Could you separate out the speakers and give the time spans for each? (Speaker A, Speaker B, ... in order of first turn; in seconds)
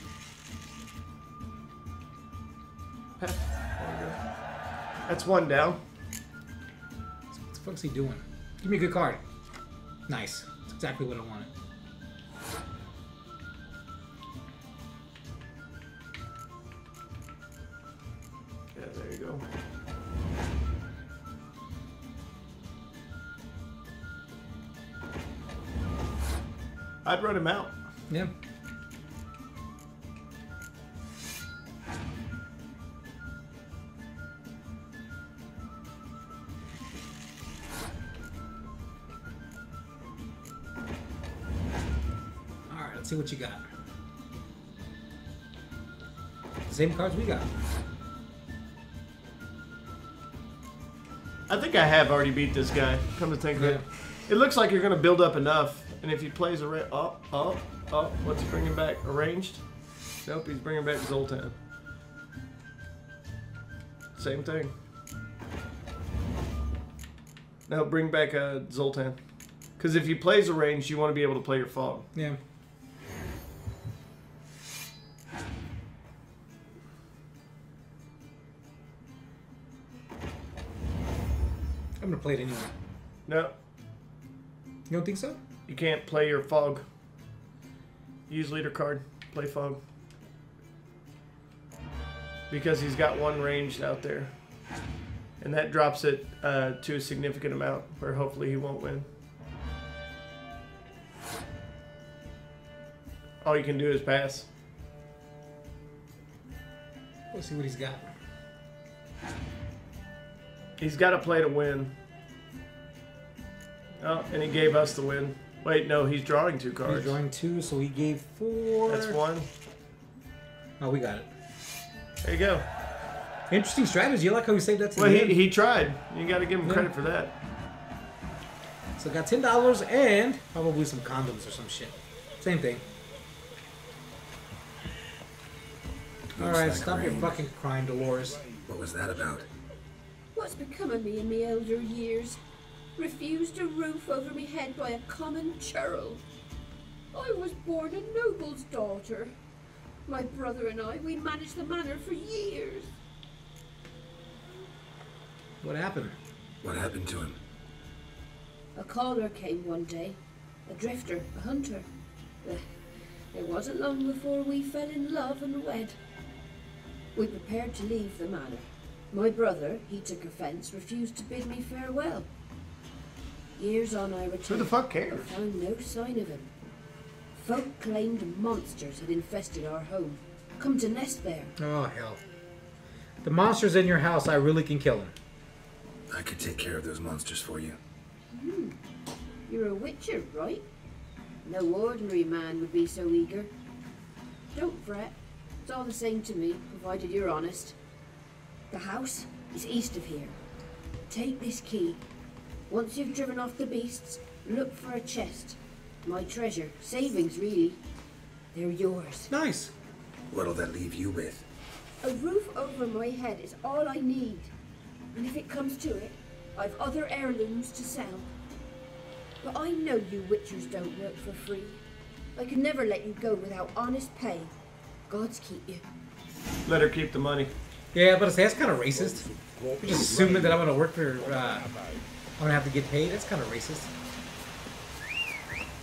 Speaker A: 3.2-4.2, 5.1-5.8, 18.7-19.4, 27.0-27.8, 51.5-59.6, 60.2-61.5, 64.2-64.7, 67.7-69.2, 69.8-72.1, 83.3-83.5, 85.7-86.8, 88.3-89.8, 92.5-94.3, 95.4-99.1, 103.4-104.5, 110.8-111.9, 114.0-117.2, 118.9-119.5, 122.2-122.7, 125.0-127.3, 174.5-175.3, 226.7-227.5
Speaker B: 7.3-9.2, 10.1-11.5, 42.7-43.6, 46.7-47.5, 53.5-53.8, 82.0-82.7, 84.9-85.4, 107.3-108.1, 116.9-119.2, 120.8-121.3, 123.5-125.4, 126.6-126.9, 129.0-132.8, 136.4-138.4, 155.6-156.2, 181.6-182.2, 183.2-185.1, 209.3-209.7, 227.9-229.2, 229.8-231.7, 232.4-233.9
Speaker C: 136.4-137.4, 138.7-139.5, 156.6-157.4, 186.1-187.8, 210.3-211.4
Speaker D: 140.3-142.4, 143.0-146.2, 147.1-149.3, 150.1-152.9, 158.8-161.9, 163.3-166.0, 167.2-172.3, 173.6-176.5, 177.3-181.6, 188.3-188.8, 189.5-190.6, 191.4-193.5, 194.5-197.8, 198.7-200.4, 201.1-202.0, 202.7-207.8, 208.5-209.3, 212.0-214.5, 215.1-218.3, 219.4-221.8, 222.4-224.5, 225.1-225.8